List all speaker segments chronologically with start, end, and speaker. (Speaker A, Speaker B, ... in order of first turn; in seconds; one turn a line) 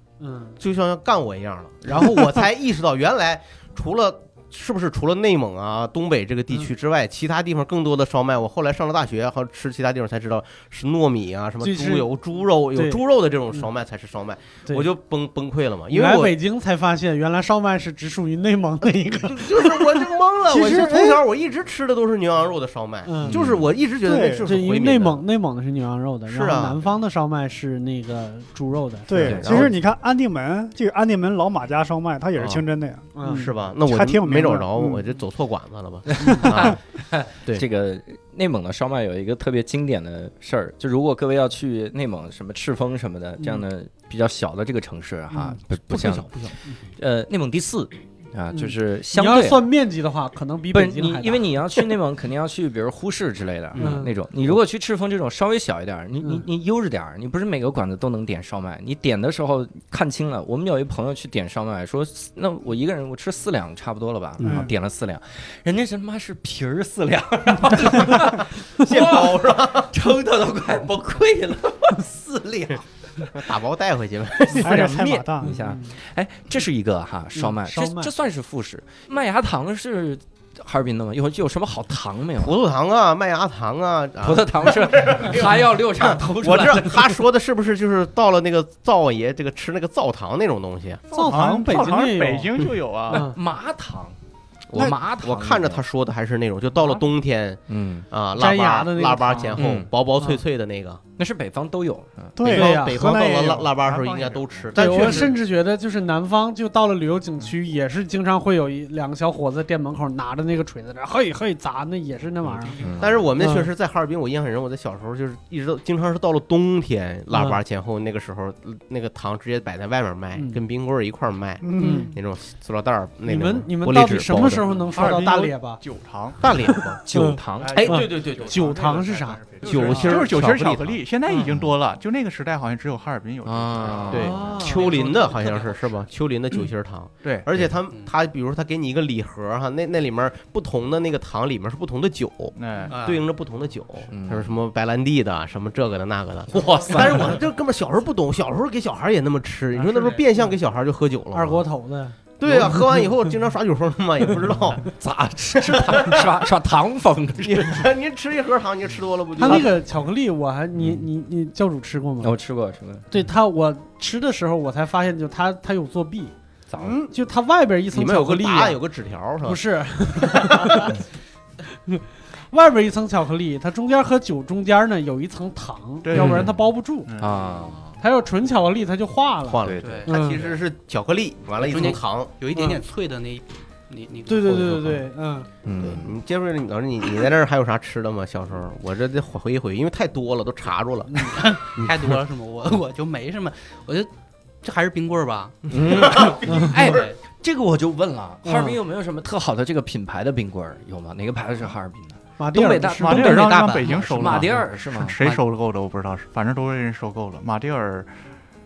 Speaker A: 0.2-0.6
Speaker B: 0.6-16.4
Speaker A: 11.6-13.7
Speaker A: 15.9-21.2
Speaker B: 19.1-25.2
Speaker C: 20.7-21.1
Speaker A: 23.1-23.4
Speaker D: 23.3-23.6
Speaker C: 24.0-24.5
Speaker A: 24.4-29.4
Speaker B: 26.3-26.8
Speaker C: 29.1-35.0
Speaker D: 29.2-29.7
Speaker B: 29.2-29.8
Speaker B: 32.4-32.6
Speaker A: 33.1-33.5
Speaker B: 33.2-36.8
Speaker D: 36.2-49.7
Speaker A: 43.4-43.6
Speaker A: 45.3-45.6
Speaker B: 45.9-46.5
Speaker A: 48.5-51.9
Speaker D: 50.7-73.5
Speaker A: 53.8-54.1
Speaker A: 56.2-56.5
Speaker B: 64.4-64.7
Speaker C: 64.4-64.7
Speaker B: 68.8-69.9
Speaker B: 73.3-74.7
Speaker D: 74.4-82.6
Speaker C: 74.5-75.5
Speaker A: 75.4-75.9
Speaker A: 77.3-78.1
Speaker B: 82.4-91.0
Speaker D: 84.2-87.2
Speaker E: 91.1-93.2
Speaker A: 91.1-92.5
Speaker A: 93.1-93.4
Speaker D: 93.1-94.2
Speaker D: 94.7-95.8
Speaker B: 94.7-101.0
Speaker D: 97.7-98.1
Speaker A: 98.4-99.6
Speaker D: 99.6-99.9
Speaker D: 101.2-102.4
Speaker C: 102.4-103.7
Speaker B: 102.4-105.4
Speaker A: 102.5-103.0
Speaker E: 103.8-105.1
Speaker A: 104.8-112.8
Speaker D: 112.7-113.2
Speaker B: 113.0-124.7
Speaker A: 113.4-113.7
Speaker A: 117.3-117.6
Speaker A: 120.3-120.6
Speaker C: 121.6-122.2
Speaker A: 121.8-122.1
Speaker A: 123.3-125.8
Speaker E: 124.9-126.4
Speaker B: 126.4-127.0
Speaker A: 127.0-130.1
Speaker D: 127.1-128.0
Speaker E: 127.6-135.5
Speaker B: 127.7-128.8
Speaker B: 129.6-131.0
Speaker D: 131.4-131.7
Speaker D: 133.4-134.4
Speaker B: 134.1-151.7
Speaker A: 134.2-134.9
Speaker F: 134.6-135.6
Speaker E: 137.2-137.5
Speaker E: 142.6-143.0
Speaker F: 142.9-143.2
Speaker D: 144.1-144.6
Speaker D: 146.5-147.4
Speaker F: 149.9-150.2
Speaker A: 151.3-152.2
Speaker B: 152.4-154.9
Speaker D: 154.8-157.9
Speaker B: 155.7-156.3
Speaker B: 157.4-159.8
Speaker A: 159.4-162.3
Speaker D: 160.8-161.0
Speaker D: 162.2-163.1
Speaker A: 163.1-166.3
Speaker D: 166.7-167.0
Speaker B: 166.8-167.1
Speaker A: 167.1-168.8
Speaker B: 167.9-169.6
Speaker A: 169.4-171.0
Speaker B: 170.3-170.8
Speaker A: 171.9-177.1
Speaker E: 176.0-176.5
Speaker D: 176.1-176.6
Speaker E: 177.1-177.5
Speaker D: 177.2-177.9
Speaker A: 178.0-180.4
Speaker B: 179.5-182.3
Speaker D: 179.6-180.1
Speaker F: 179.8-180.5
Speaker F: 181.6-184.8
Speaker A: 182.5-182.8
Speaker A: 184.3-185.5
Speaker B: 184.5-185.0
Speaker D: 185.6-186.1
Speaker B: 185.8-191.9
Speaker F: 191.3-194.1
Speaker F: 194.6-195.6
Speaker B: 195.7-197.1
Speaker D: 195.7-205.2
Speaker A: 196.5-196.7
Speaker F: 196.8-197.2
Speaker A: 198.4-198.8
Speaker A: 202.4-203.4
Speaker E: 203.0-208.1
Speaker F: 203.2-204.5